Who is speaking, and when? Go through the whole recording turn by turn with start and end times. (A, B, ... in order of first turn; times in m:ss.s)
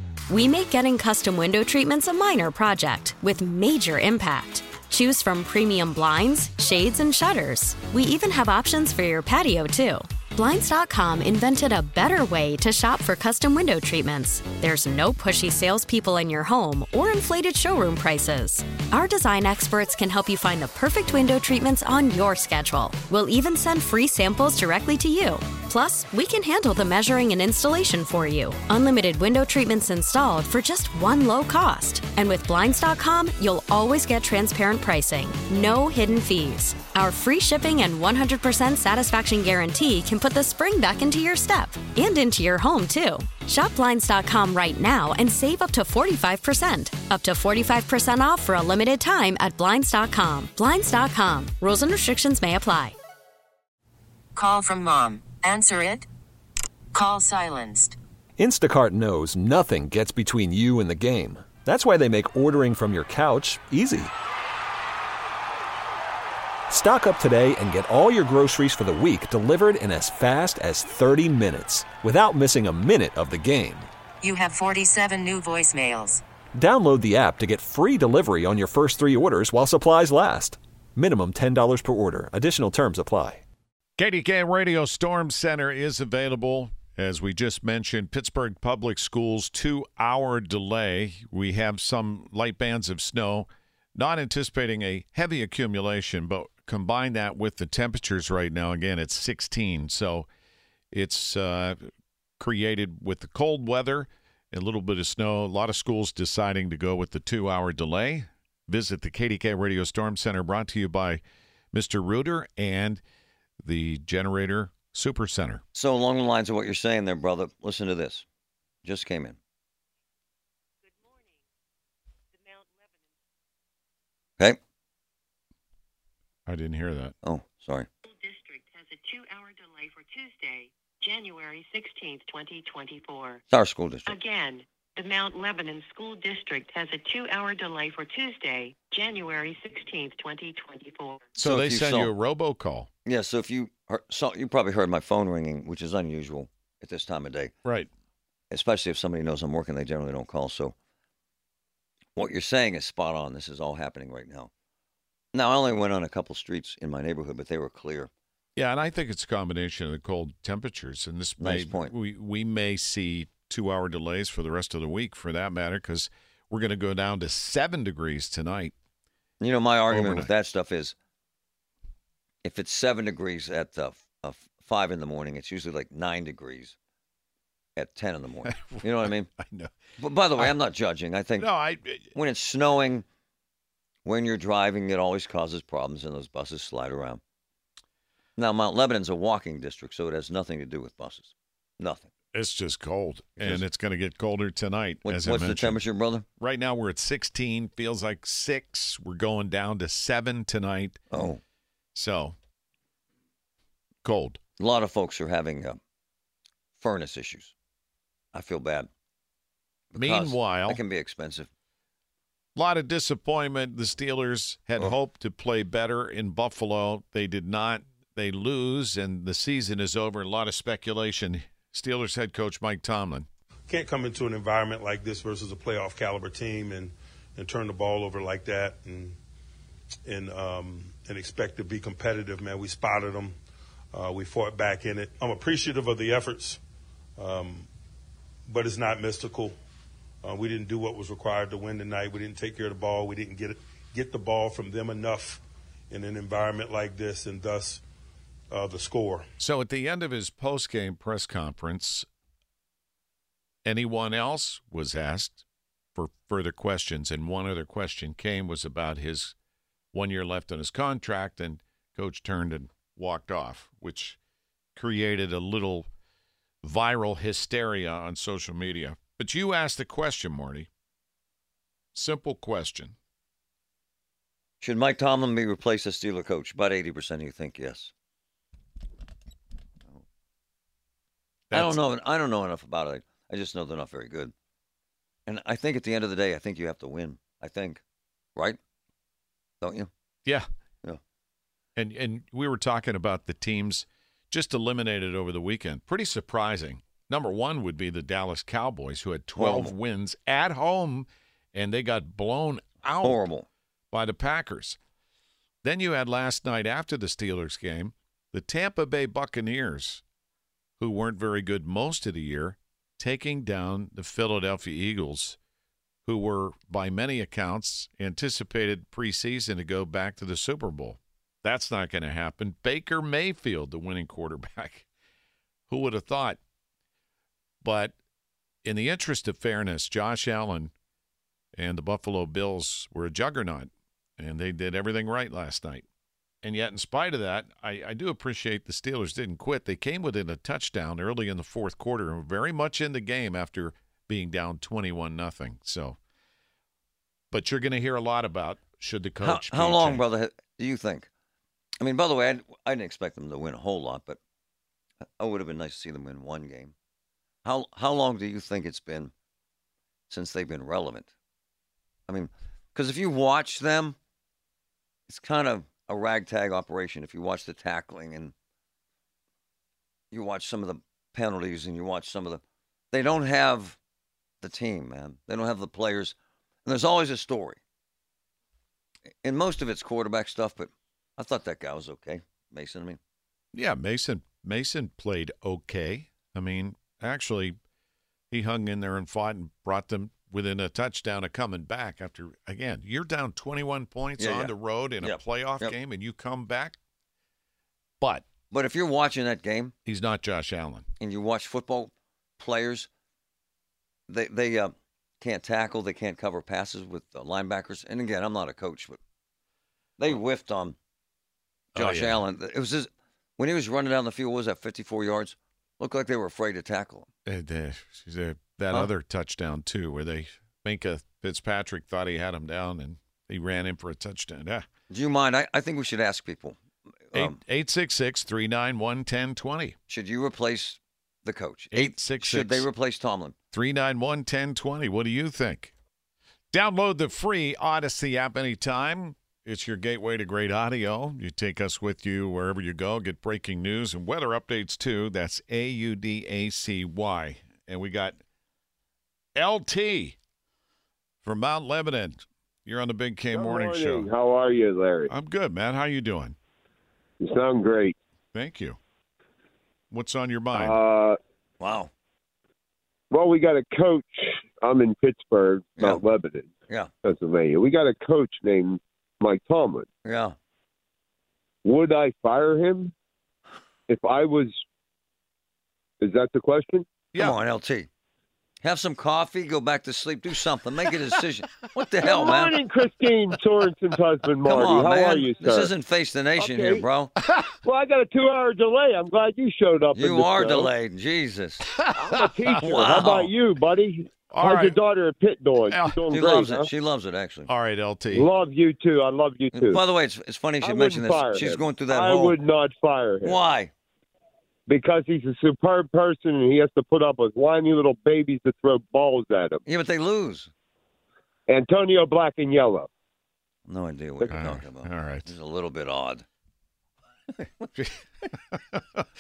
0:00.3-0:53.0 A
0:54.4-0:56.1 B
0:56.9-0:58.0 B
0:58.4-1:04.1 C
1:06.7-1:13.9 C
1:14.2-1:16.2 B
1:16.6-1:23.4 C
1:24.0-1:40.3 D
1:40.9-1:41.8 D
1:42.4-1:51.2 D
1:51.7-1:53.0 D
1:53.6-1:55.6 D
1:55.7-1:58.3 E
1:58.8-1:59.4 E
2:00.8-2:01.4 F
2:02.3-2:03.0 F
2:06.5-2:07.2 D
2:07.2-2:07.9 E
2:08.0-2:13.4 F
2:13.5-2:14.1 E
2:14.1-2:21.4 F
2:21.4-2:22.9 D
2:21.4-2:22.1 E
2:23.0-2:27.5 E
2:28.5-2:30.7 E
2:32.2-2:34.5 E
2:35.3-2:38.1 E
2:38.6-2:48.7 D
2:41.4-2:41.9 E
2:49.4-2:51.0 E
2:49.9-2:50.3 D
2:52.4-2:56.8 E
2:57.8-2:59.3 E
2:58.5-2:59.7 D
3:00.0-3:01.5 E
3:01.4-3:02.1 D
3:02.2-3:03.0 E
3:04.0-3:07.2 E
3:08.4-3:12.1 E
3:12.3-3:15.8 D
3:15.0-3:16.3 E
3:16.4-3:21.0 D
3:21.1-3:21.4 E
3:22.0-3:22.4 D
3:24.0-3:24.4 D
3:24.6-3:25.8 E
3:26.8-3:27.5 E
3:28.3-3:28.9 E
3:29.9-3:31.5 E
3:30.0-3:30.8 D
3:32.6-3:43.3 D
3:43.7-3:49.2 G
3:50.1-3:53.4 G
3:53.9-3:56.6 G
3:57.2-3:57.7 G
3:58.5-3:59.6 G
4:00.2-4:07.8 G
4:08.5-4:09.3 G
4:09.4-4:12.1 D
4:13.6-4:15.4 D
4:16.0-4:19.4 D
4:19.9-4:24.2 D
4:24.8-4:25.9 D
4:26.6-4:30.7 D
4:31.9-4:33.0 D
4:34.6-4:37.9 E
4:41.5-4:41.8 D
4:41.5-4:44.3 E
4:45.3-4:47.8 E
4:49.6-4:49.9 E
4:51.8-5:03.2 D
4:59.4-4:59.7 E
5:03.0-5:03.5 E
5:03.9-5:04.8 D
5:05.6-5:10.0 D
5:10.8-5:15.4 D
5:16.0-5:24.9 D
5:25.7-5:26.4 D
5:27.6-5:28.0 D
5:28.6-5:30.7 D
5:31.6-5:35.8 D
5:36.4-5:46.0 D
5:47.3-5:50.0 D
5:49.2-5:51.1 E
5:51.8-5:54.2 E
5:55.2-5:56.7 E
5:57.4-5:59.1 E
6:00.1-6:01.1 E
6:02.1-6:04.0 E
6:05.1-6:08.3 E
6:10.1-6:13.8 E
6:14.4-6:17.6 E
6:19.2-6:23.0 E
6:23.5-6:27.6 D
6:28.3-6:36.8 D
6:34.2-6:35.7 E
6:38.0-6:38.3 D
6:38.5-6:39.7 E
6:39.9-6:40.9 D
6:41.0-6:42.9 E
6:44.1-6:49.0 E
6:50.0-6:50.8 E
6:51.8-6:52.2 D
6:51.8-6:57.1 E
6:57.2-7:04.7 D
7:04.9-7:06.6 E
7:07.1-7:07.4 E
7:07.1-7:09.8 D
7:09.9-7:13.4 E
7:11.7-7:12.7 D
7:13.5-7:15.7 D
7:16.5-7:28.2 D
7:29.4-7:30.2 D
7:31.2-7:34.1 D
7:33.3-7:35.1 H
7:35.1-7:36.4 D
7:37.2-7:38.0 H
7:38.3-7:38.8 D
7:39.9-7:40.8 D
7:40.6-7:41.2 H
7:41.6-7:41.9 E
7:43.1-7:46.5 H
7:47.0-7:49.9 H
7:50.0-7:50.4 E
7:51.6-7:52.9 H
7:53.9-7:54.6 H
7:56.0-7:57.0 H
7:57.2-7:57.9 E
7:58.6-8:02.6 E
8:02.0-8:05.7 H
8:04.4-8:07.1 E
8:06.4-8:06.8 H
8:07.3-8:07.5 D
8:07.6-8:10.7 H
8:10.0-8:11.7 E
8:11.7-8:12.6 D
8:11.9-8:16.7 H
8:12.6-8:13.3 E
8:14.3-8:14.8 D
8:15.7-8:16.0 D
8:16.1-8:17.5 E
8:17.5-8:18.3 D
8:18.1-8:19.8 H
8:19.5-8:22.4 E
8:20.6-8:23.4 H
8:23.2-8:23.7 E
8:24.7-8:29.6 H
8:29.7-8:30.5 E
8:31.5-8:32.9 H
8:33.7-8:36.3 E
8:34.3-8:35.3 D
8:37.4-8:37.7 E
8:37.8-8:39.1 D